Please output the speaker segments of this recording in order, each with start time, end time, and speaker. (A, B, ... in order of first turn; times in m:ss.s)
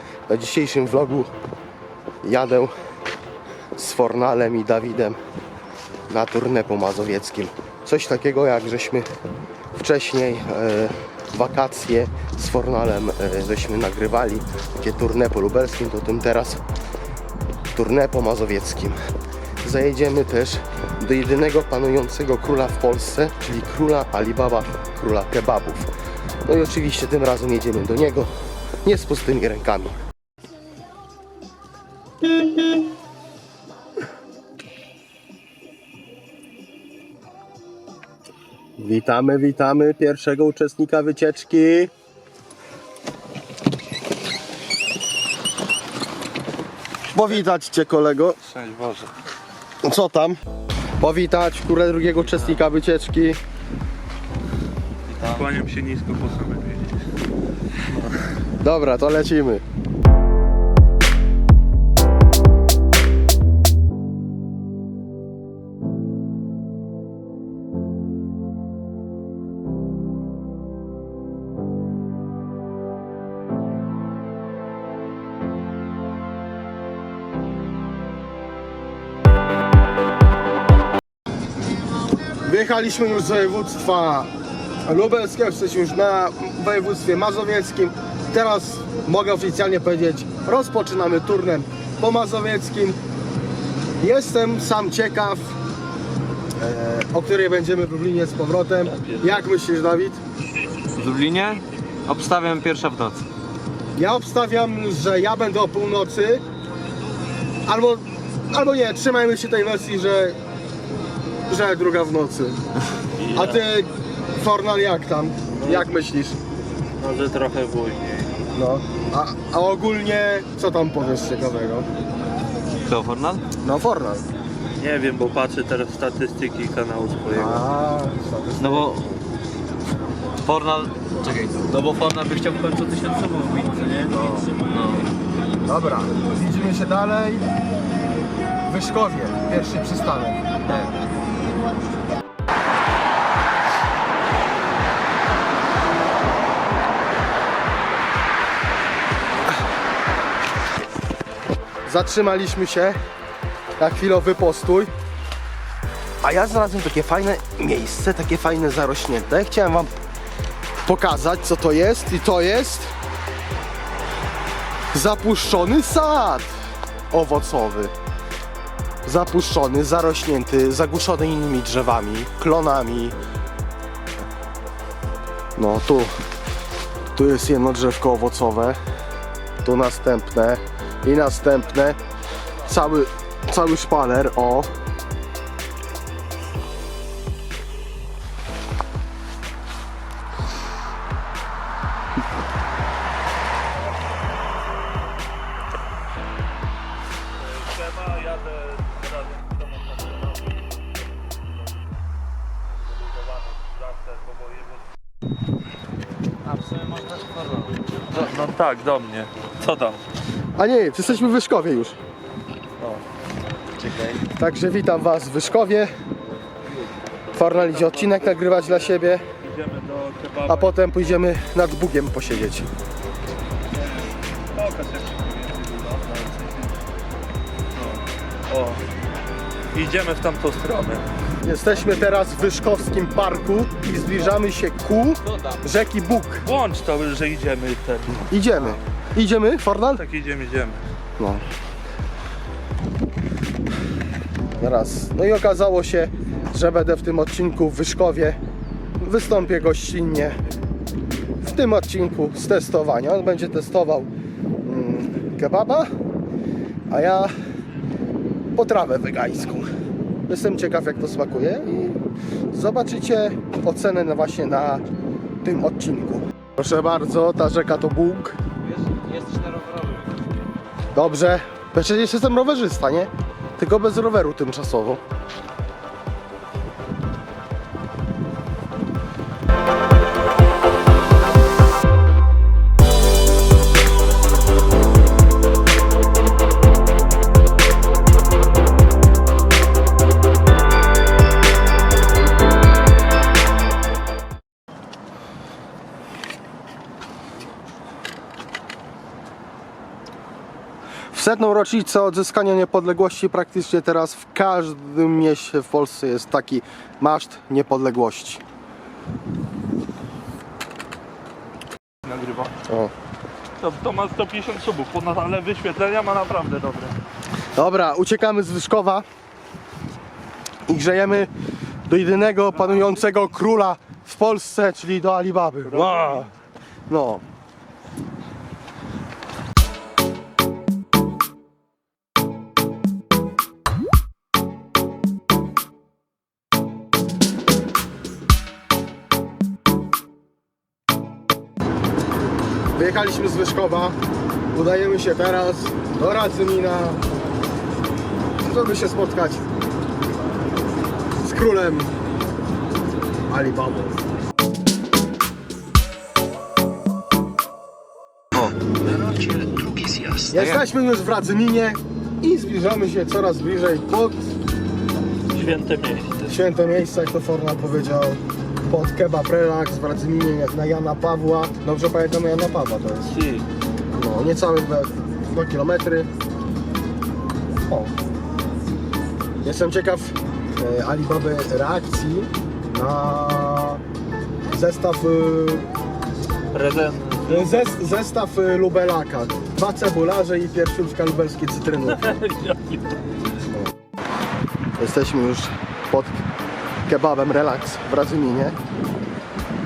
0:00.3-0:01.3 A
0:02.2-0:02.7 A
0:03.8-0:05.2 A
0:06.1-0:09.1 A
0:09.7-0:16.6 A
0:17.7-0:19.0 A
0:19.6-0:25.9 A
0:26.4-0:28.3 A
0:28.8-0:30.0 A
0:38.8-0:41.9 A
0:47.1-0:48.4 A
0:48.4-0:49.1 B
0:49.8-0:50.4 A
0:51.0-0:53.4 A
0:55.1-0:55.4 C
0:55.2-0:57.0 B
0:58.5-0:59.6 A
1:22.4-1:24.3 A
1:24.9-1:33.0 A
1:34.0-1:35.6 A
1:36.6-1:40.2 A
1:38.8-1:39.4 B
1:41.0-1:43.2 C
1:44.0-1:46.4 A
1:47.7-1:50.4 A
1:51.5-1:52.6 A
1:53.2-1:53.6 B
1:53.3-1:56.4 A
1:55.6-1:55.9 B
1:57.0-1:58.3 B
1:58.6-2:01.9 A
2:02.9-2:03.4 C
2:03.6-2:04.3 A
2:04.8-2:07.6 B
2:07.3-2:09.1 A
2:08.6-2:09.1 C
2:10.4-2:15.1 C
2:14.2-2:14.4 A
2:15.7-2:17.4 A
2:18.7-2:20.4 A
2:31.9-2:33.0 A
2:33.8-2:34.9 A
2:36.2-2:39.9 A
2:40.8-2:42.9 A
2:44.9-2:46.5 A
2:47.1-2:47.9 A
2:49.0-2:53.2 A
2:55.6-2:56.2 A
2:57.2-2:58.8 A
2:59.6-3:02.0 A
3:02.6-3:04.7 A
3:17.4-3:20.6 B
3:23.0-3:24.8 B
3:26.5-3:27.8 C
3:28.1-3:30.0 B
3:30.6-3:32.0 A
3:33.8-3:34.2 C
3:34.3-3:35.9 A
3:37.3-3:39.3 A
3:37.3-3:40.8 B
3:40.5-3:42.7 A
3:44.5-3:46.8 B
3:47.8-3:48.8 B
3:49.7-3:51.0 B
3:51.4-3:56.5 A
3:56.4-3:58.3 B
3:58.1-4:00.0 A
3:59.9-4:00.8 B
4:01.2-4:01.4 A
4:04.6-4:08.4 A
4:09.0-4:10.4 A
4:11.4-4:14.1 A
4:14.6-4:15.9 A
4:16.9-4:17.3 A
4:18.5-4:19.7 A
4:20.3-4:22.0 A
4:22.5-4:24.8 A
4:25.4-4:28.4 A
4:28.7-4:30.1 C
4:30.9-4:35.0 A
5:01.1-5:08.4 A
5:12.0-5:12.5 B
5:12.6-5:12.9 A
5:13.6-5:17.0 B
5:17.6-5:19.0 A
5:20.7-5:21.3 A
5:21.9-5:26.3 A
5:25.7-5:26.3 B
5:26.9-5:27.2 A
5:42.8-5:44.0 A
5:44.5-5:47.0 A
5:48.4-5:49.4 A
5:51.2-5:51.9 A
5:53.3-5:53.9 A
5:58.3-6:00.6 C
6:00.2-6:04.2 A
6:05.3-6:06.3 B
6:06.2-6:13.1 A
6:13.1-6:13.4 B
6:13.9-6:16.1 A
6:19.4-6:23.8 A
6:24.5-6:25.7 A
6:26.5-6:27.7 B
6:27.2-6:32.2 A
6:31.9-6:33.0 B
6:34.8-6:36.2 A
6:36.9-6:38.6 A